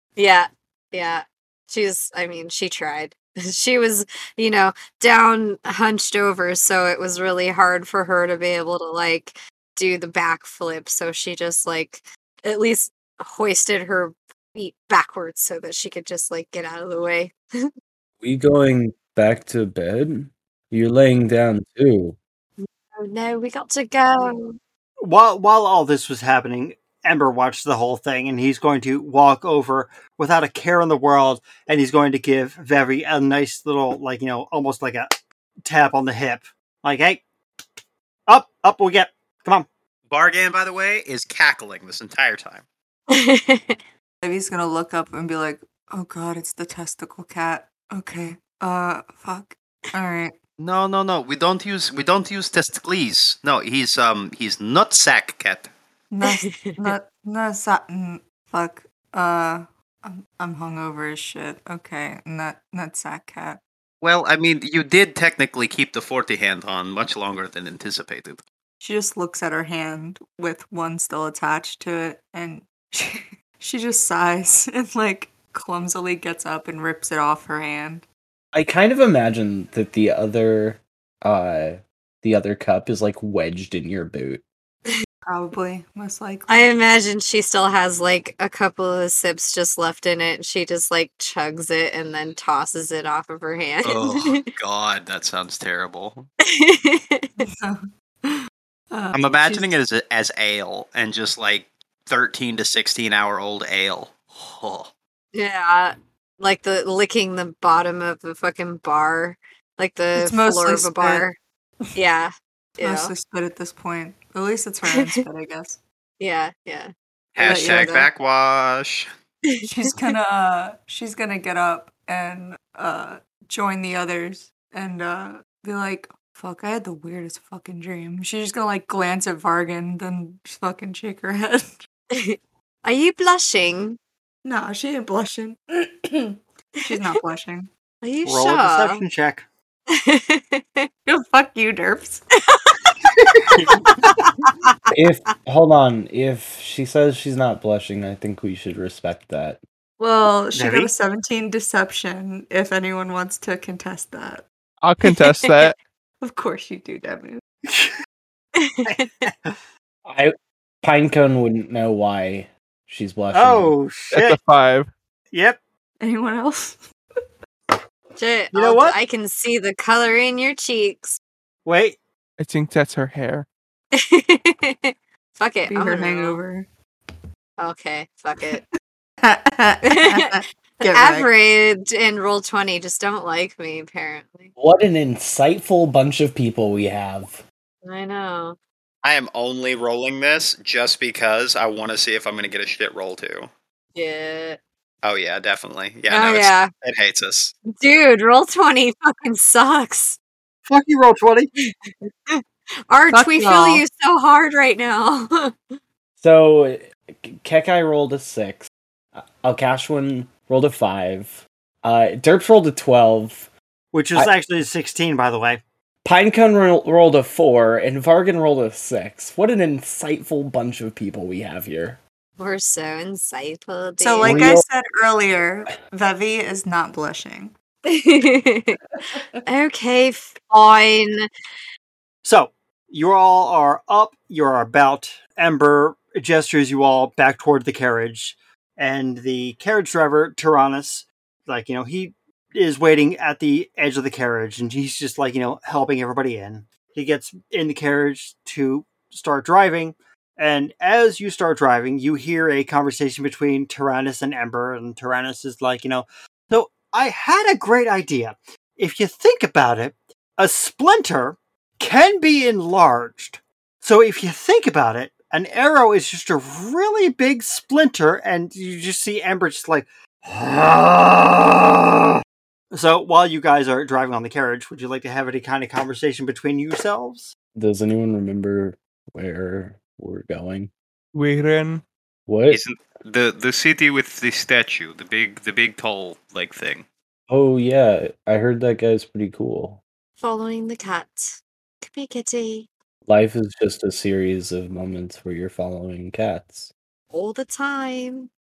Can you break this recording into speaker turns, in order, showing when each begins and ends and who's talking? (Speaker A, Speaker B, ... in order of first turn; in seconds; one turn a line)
Speaker A: 0.2-17.7
Speaker B: 18.2-22.2
Speaker A: 22.6-24.6
Speaker C: 25.0-35.1
Speaker C: 35.6-37.2
Speaker C: 38.3-39.7
Speaker D: 40.1-42.6
Speaker A: 43.1-43.8
Speaker E: 44.2-50.4
Speaker D: 50.6-55.7
Speaker E: 56.1-63.6
Speaker A: 56.2-56.9
Speaker D: 64.0-68.4
Speaker E: 68.8-78.0
Speaker B: 78.5-84.4
Speaker E: 85.3-86.5
Speaker A: 86.5-94.4
Speaker D: 93.8-96.3
Speaker A: 96.5-97.3
Speaker E: 97.4-99.7
Speaker D: 99.1-104.9
Speaker A: 105.3-111.4
Speaker E: 110.2-111.3
Speaker A: 112.0-113.1
Speaker E: 112.8-115.8
Speaker A: 116.2-118.1
Speaker D: 117.3-119.1
Speaker E: 117.4-118.0
Speaker E: 119.7-131.8
Speaker A: 132.1-134.0
Speaker E: 134.4-137.7
Speaker A: 138.0-139.0
Speaker C: 138.2-139.5
Speaker A: 139.9-140.9
Speaker E: 141.1-142.2
Speaker A: 142.5-143.1
Speaker B: 144.9-149.6
Speaker E: 150.0-154.4
Speaker C: 150.5-150.9
Speaker F: 154.8-155.8
Speaker E: 156.2-157.4
Speaker C: 157.7-157.9
Speaker A: 158.6-159.1
Speaker C: 158.9-159.6
Speaker B: 160.1-163.8
Speaker C: 163.3-164.4
Speaker F: 164.1-164.9
Speaker C: 165.3-165.6
Speaker E: 166.0-166.8
Speaker A: 168.2-171.2
Speaker C: 168.5-169.0
Speaker C: 171.7-172.0
Speaker F: 172.4-173.5
Speaker A: 173.9-176.4
Speaker E: 175.7-176.7
Speaker A: 177.6-178.6
Speaker E: 179.2-181.3
Speaker A: 179.9-180.3
Speaker A: 180.8-184.5
Speaker B: 184.6-187.4
Speaker A: 187.8-188.6
Speaker D: 189.0-193.5
Speaker A: 193.9-194.6
Speaker D: 195.0-197.5
Speaker A: 196.1-196.7
Speaker A: 197.8-200.2
Speaker C: 200.7-201.5
Speaker A: 201.7-205.5
Speaker E: 203.1-203.8
Speaker B: 206.2-213.5
Speaker C: 213.9-215.6
Speaker B: 216.0-222.0
Speaker A: 222.4-224.5
Speaker E: 224.0-227.5
Speaker B: 224.2-224.7
Speaker A: 227.9-228.8
Speaker A: 229.5-231.3
Speaker C: 232.2-271.8
Speaker C: 272.7-277.4
Speaker B: 277.6-280.7
Speaker F: 281.1-281.8
Speaker B: 282.3-282.6
Speaker D: 282.5-286.9
Speaker B: 287.3-289.8
Speaker A: 290.2-292.7
Speaker B: 293.1-296.7
Speaker A: 297.1-298.3